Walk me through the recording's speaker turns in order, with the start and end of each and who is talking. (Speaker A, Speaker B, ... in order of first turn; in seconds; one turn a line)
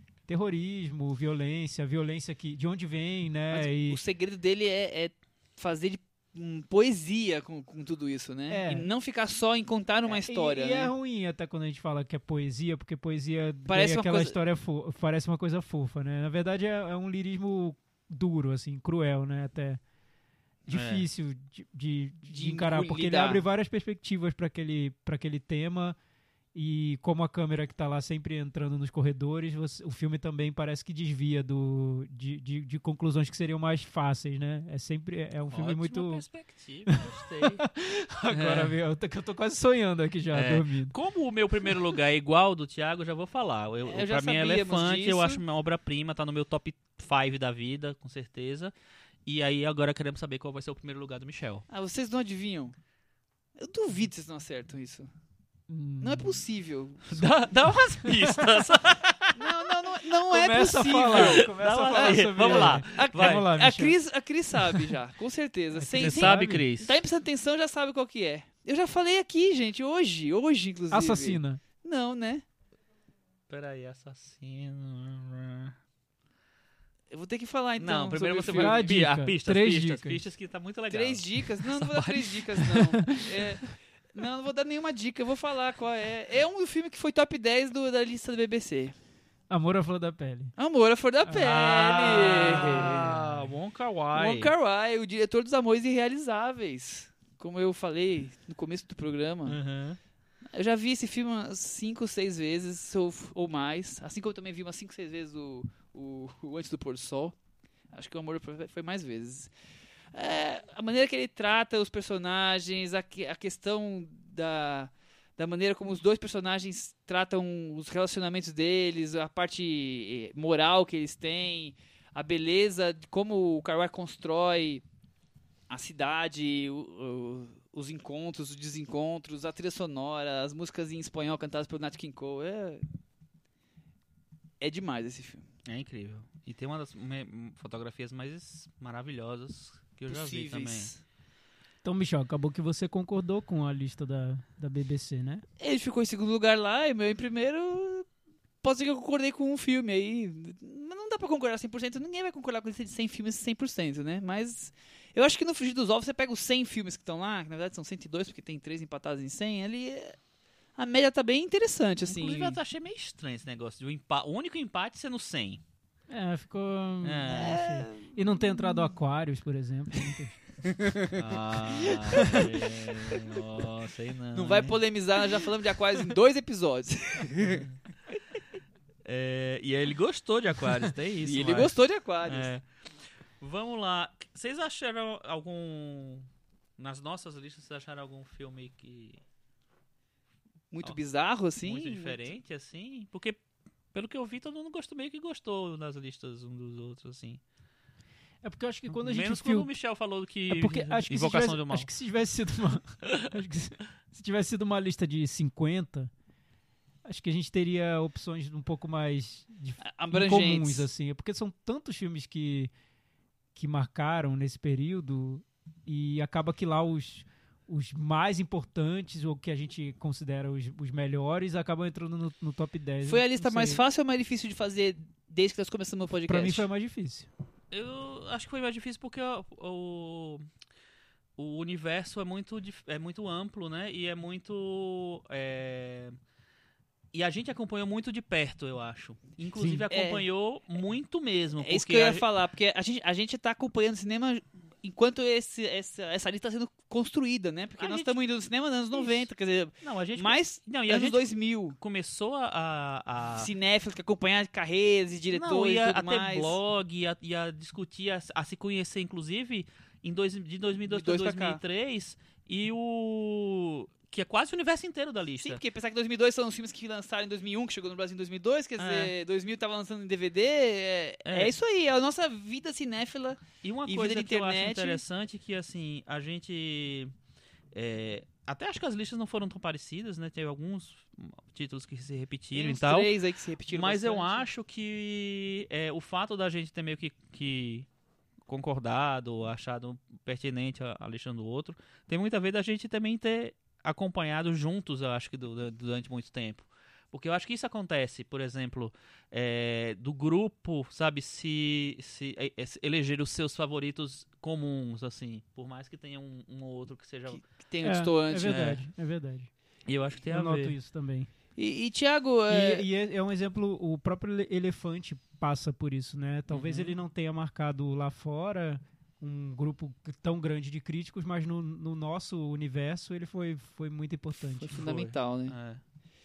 Speaker A: 0.3-4.0
Speaker B: 3.5-10.9
Speaker A: 8.5-8.9
Speaker A: 10.1-19.8
Speaker B: 13.7-14.3
Speaker A: 20.7-25.9
Speaker C: 20.7-21.1
Speaker B: 22.3-23.4
Speaker A: 26.5-36.2
Speaker C: 35.5-37.6
Speaker A: 36.9-40.9
Speaker C: 38.3-38.7
Speaker C: 40.3-48.7
Speaker B: 43.9-45.4
Speaker C: 49.2-51.6
Speaker B: 51.7-52.7
Speaker B: 53.6-55.1
Speaker A: 55.7-56.4
Speaker B: 56.0-57.2
Speaker C: 57.1-59.5
Speaker A: 57.9-58.6
Speaker B: 59.4-72.4
Speaker A: 60.3-64.0
Speaker C: 61.1-63.5
Speaker A: 65.7-66.6
Speaker C: 66.0-67.0
Speaker A: 70.9-71.6
Speaker C: 73.5-75.7
Speaker B: 77.1-79.0
Speaker C: 77.8-82.5
Speaker A: 78.5-80.2
Speaker B: 80.9-88.9
Speaker A: 82.6-83.3
Speaker A: 89.5-90.5
Speaker B: 90.6-93.2
Speaker C: 91.3-94.5
Speaker B: 94.1-99.6
Speaker C: 99.5-100.0
Speaker B: 100.5-107.3
Speaker B: 107.9-109.5
Speaker B: 110.1-124.8
Speaker B: 125.7-132.8
Speaker B: 134.6-135.4
Speaker C: 135.7-140.9
Speaker B: 140.1-141.0
Speaker A: 141.8-145.4
Speaker B: 145.6-148.1
Speaker B: 148.6-160.2
Speaker B: 160.8-162.6
Speaker C: 162.1-165.6
Speaker A: 166.1-170.4
Speaker C: 167.0-167.6
Speaker B: 167.3-168.1
Speaker B: 170.8-171.2
Speaker C: 171.1-174.8
Speaker A: 171.9-172.5
Speaker B: 174.3-177.7
Speaker C: 177.4-177.7
Speaker C: 179.0-182.6
Speaker B: 181.2-182.5
Speaker C: 183.4-189.2
Speaker B: 190.7-192.2
Speaker C: 191.6-193.4
Speaker C: 193.9-197.4
Speaker A: 198.4-199.7
Speaker C: 198.9-201.9
Speaker A: 200.5-206.1
Speaker A: 207.0-212.7
Speaker B: 209.8-210.9
Speaker A: 213.5-223.8
Speaker B: 223.0-226.7
Speaker A: 226.3-227.3
Speaker C: 227.7-230.4
Speaker C: 231.4-236.1
Speaker C: 237.1-242.2
Speaker A: 239.6-239.8
Speaker B: 239.9-240.2
Speaker B: 241.6-251.8
Speaker C: 247.8-248.1
Speaker C: 248.9-249.3
Speaker C: 249.8-253.5
Speaker B: 253.4-256.6
Speaker C: 255.3-265.6
Speaker B: 260.8-261.6
Speaker B: 265.4-275.0
Speaker C: 268.8-269.1
Speaker C: 271.2-271.5
Speaker C: 273.6-277.1
Speaker C: 277.7-283.2
Speaker B: 282.5-284.5
Speaker C: 283.7-287.9
Speaker C: 288.4-307.4
Speaker B: 307.3-308.6
Speaker A: 307.8-309.5
Speaker C: 308.4-308.8
Speaker C: 309.9-310.7
Speaker A: 310.3-311.3
Speaker B: 311.6-312.9
Speaker A: 312.5-324.8
Speaker C: 316.5-316.9
Speaker B: 324.6-325.6
Speaker C: 324.7-325.8